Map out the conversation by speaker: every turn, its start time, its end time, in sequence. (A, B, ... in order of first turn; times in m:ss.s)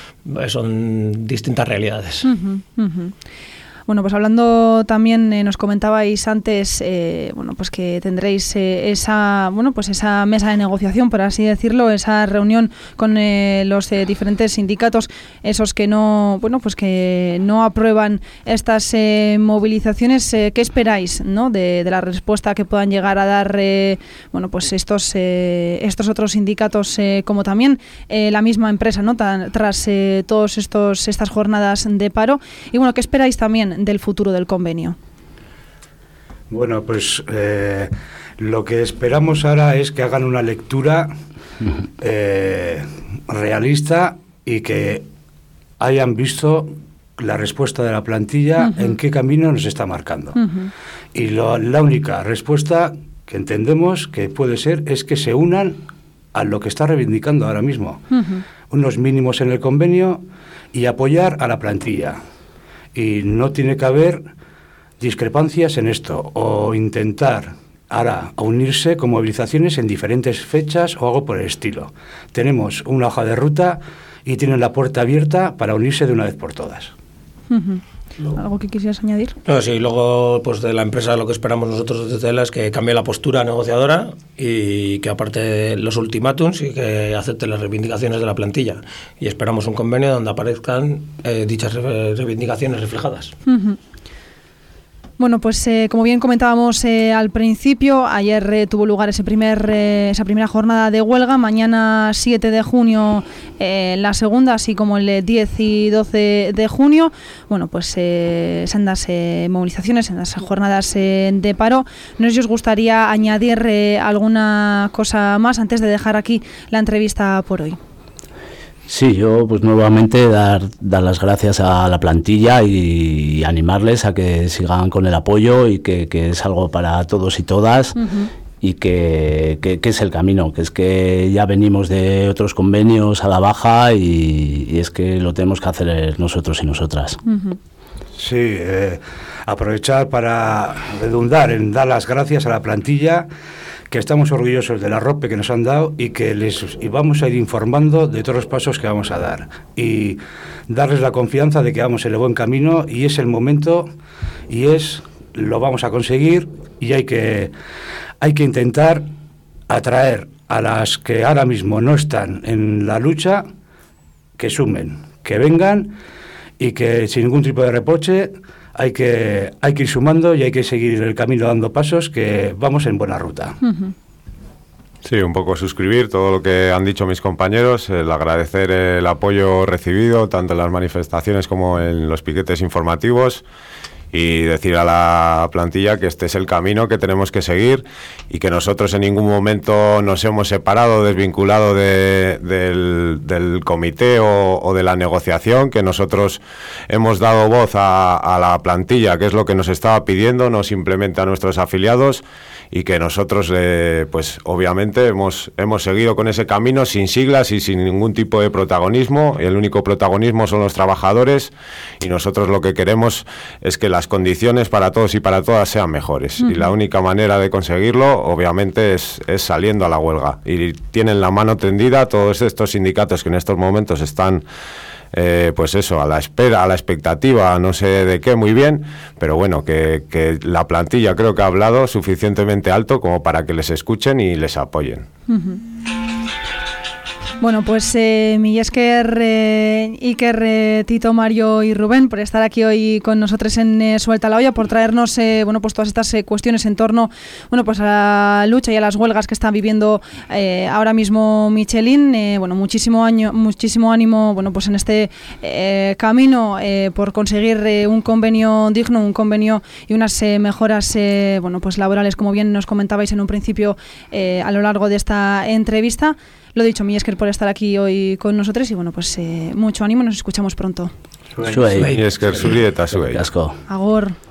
0:00.3-0:02.3 A
0:02.2-0:03.1 B
0:03.9-0:35.0 B
0:36.5-0:41.1 C
0:42.0-0:45.1 C
0:45.8-0:50.4 C
0:48.6-0:48.9 B
0:50.4-0:50.7 B
0:51.1-0:55.8 C
0:56.3-0:58.0 C
0:58.1-0:58.4 B
0:58.7-1:02.2 C
1:02.9-1:04.3 C
1:05.0-1:17.0 C
1:17.5-1:19.4 B
1:19.5-1:33.3 A
1:33.5-1:33.8 B
1:35.2-1:57.8 B
1:58.9-2:08.0 D
2:08.0-2:08.3 B
2:08.6-2:17.2 D
2:17.2-2:17.6 B
2:18.2-2:23.3 C
2:23.9-2:33.9 C
2:34.5-2:37.5 C
2:38.2-2:39.1 C
2:39.7-2:43.4 C
2:44.4-2:46.0 C
2:46.6-2:53.6 C
2:53.6-2:53.9 B
2:55.0-3:03.4 E
3:04.1-3:44.4 E
3:36.4-3:36.7 B
3:45.1-3:55.1 E
3:55.3-3:55.6 B
3:57.4-4:30.9 B
4:31.4-4:32.0 D
4:31.7-4:32.0 A
4:31.9-4:33.2 E
4:32.9-4:33.6 D
4:33.7-4:34.2 B